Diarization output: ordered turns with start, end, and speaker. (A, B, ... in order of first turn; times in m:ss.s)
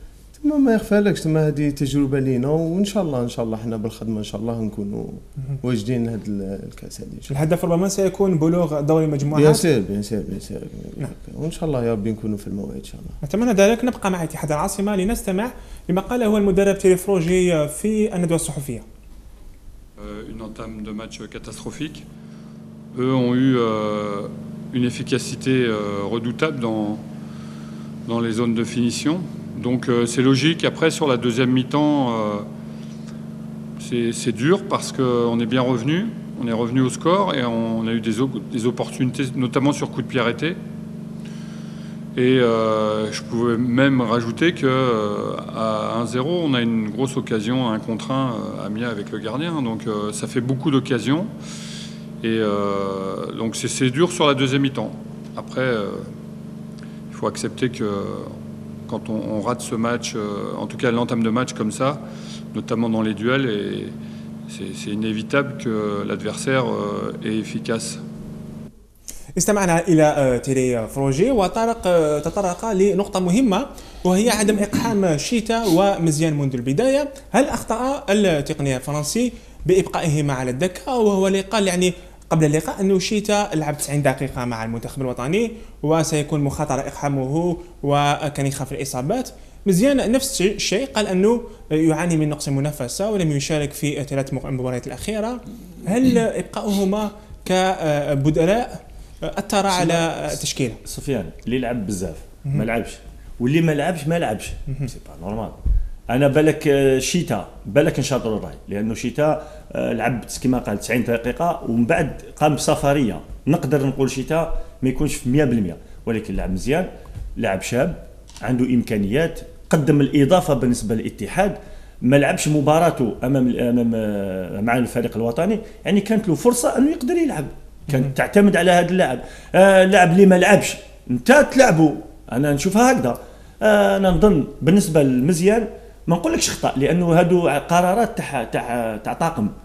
0:00.4-0:07.3 A
0:07.3-0:09.6 B
0:09.3-0:13.2 A
0:13.2-0:18.8 B
0:20.0-0:22.0 C
0:22.9-0:27.0 C
0:28.0-0:32.4 C
0:33.8-0:40.6 C
0:42.2-0:51.3 C
0:52.2-0:56.1 C
0:57.1-0:58.4 C
0:58.9-1:02.0 C
1:02.5-1:03.9 C
1:04.5-1:08.0 C
1:09.4-1:40.8 B
1:40.8-1:45.6 D
1:46.1-2:19.5 D